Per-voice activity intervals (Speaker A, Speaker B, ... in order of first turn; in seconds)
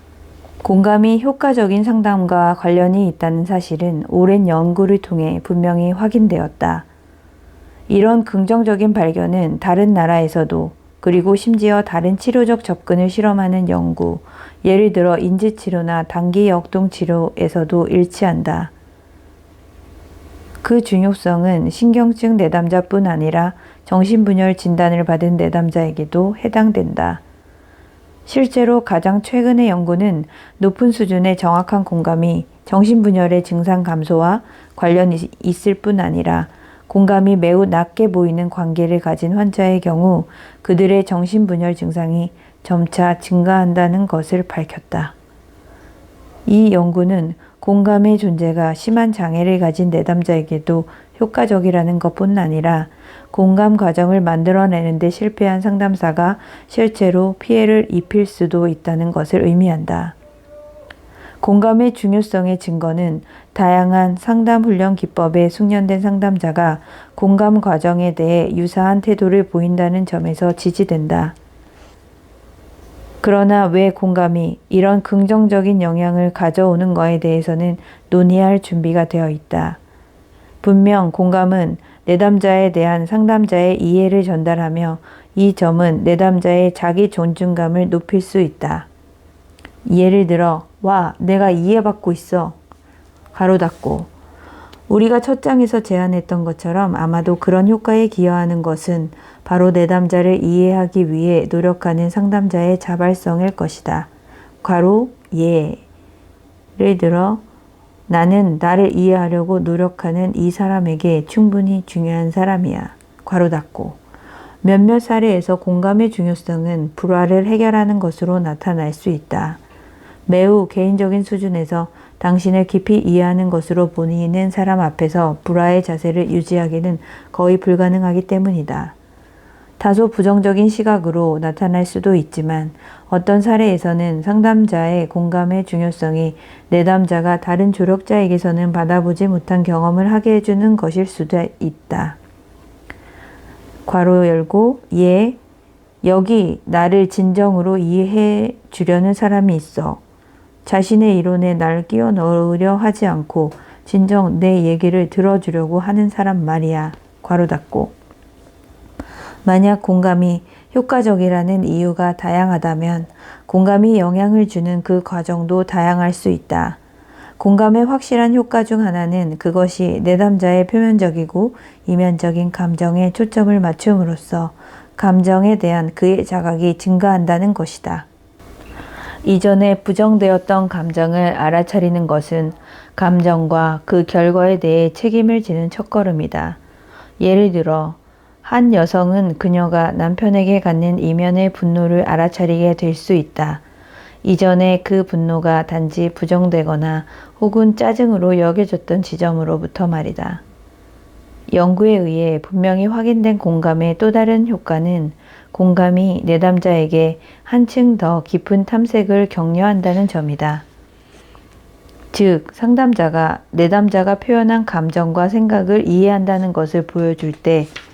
Speaker A: 0.6-6.9, 7.9-18.7, 20.6-27.2, 28.3-45.1, 46.5-60.2, 61.4-71.4, 73.2-79.8, 80.6-88.9, 89.9-92.6, 93.3-94.1, 94.9-104.1, 104.6-105.8, 106.8-107.4, 108.1-114.0, 114.6-119.6, 120.3-128.9, 129.8-142.2, 143.9-145.4, 146.0-150.0, 150.7-158.0, 159.4-166.8, 167.4-178.1, 179.2-186.6, 187.2-193.6, 194.2-200.4, 201.5-210.7, 212.1-217.7